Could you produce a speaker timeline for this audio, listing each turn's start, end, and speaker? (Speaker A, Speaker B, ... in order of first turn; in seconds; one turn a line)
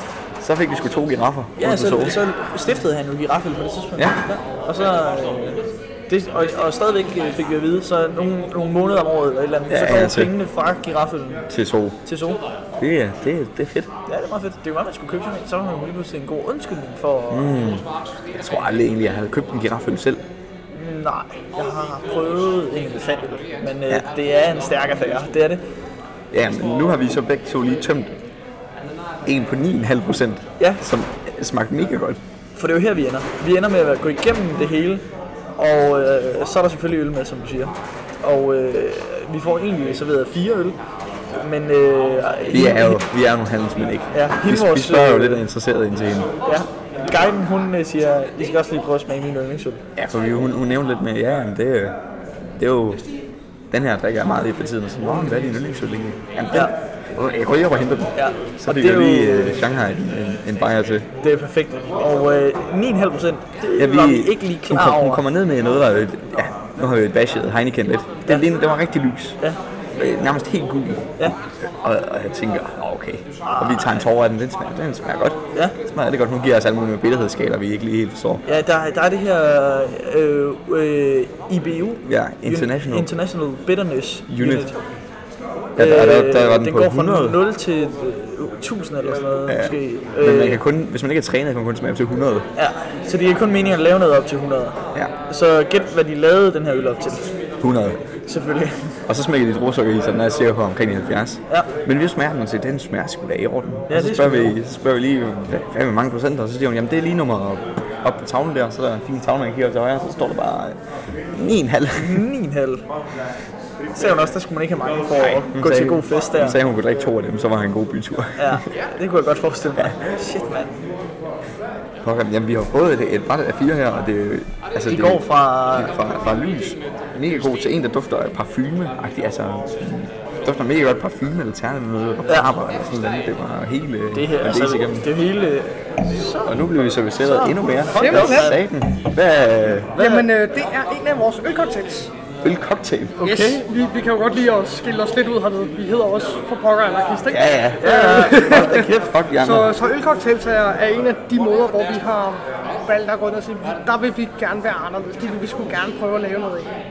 Speaker A: 0.4-2.2
Speaker B: 1.6-11.4
Speaker A: 4.0-4.2
Speaker A: 9.7-10.3
Speaker A: 11.5-12.0
Speaker B: 12.1-12.4
Speaker A: 12.8-13.9
Speaker B: 14.1-17.5
Speaker A: 17.3-20.2
Speaker B: 20.7-25.6
Speaker A: 26.3-28.2
Speaker A: 29.2-32.2
Speaker B: 30.6-30.8
Speaker B: 32.6-35.0
Speaker B: 35.6-40.8
Speaker B: 41.4-43.0
Speaker A: 42.5-46.3
Speaker B: 44.1-45.4
Speaker B: 46.5-49.8
Speaker A: 50.0-53.0
Speaker A: 53.7-61.1
Speaker B: 58.2-59.6
Speaker B: 61.2-65.2
Speaker A: 63.8-69.4
Speaker A: 70.0-78.4
Speaker B: 73.5-74.0
Speaker B: 78.5-84.8
Speaker A: 82.0-83.1
Speaker A: 84.3-84.7
Speaker A: 85.8-87.4
Speaker B: 85.8-90.6
Speaker A: 89.5-92.5
Speaker B: 92.6-97.3
Speaker A: 97.6-98.0
Speaker B: 98.3-99.0
Speaker A: 99.1-110.8
Speaker B: 103.9-104.5
Speaker A: 111.3-112.2
Speaker B: 112.0-112.8
Speaker B: 114.0-116.6
Speaker A: 115.3-118.7
Speaker B: 118.4-120.8
Speaker A: 122.0-135.1
Speaker B: 124.9-125.9
Speaker B: 134.1-136.6
Speaker A: 136.4-139.9
Speaker B: 137.2-138.6
Speaker C: 138.0-138.6
Speaker B: 139.9-140.3
Speaker C: 140.0-142.1
Speaker A: 142.4-143.2
Speaker B: 143.2-143.7
Speaker C: 143.2-156.8
Speaker A: 147.3-148.2
Speaker B: 147.8-149.2
Speaker A: 149.0-149.7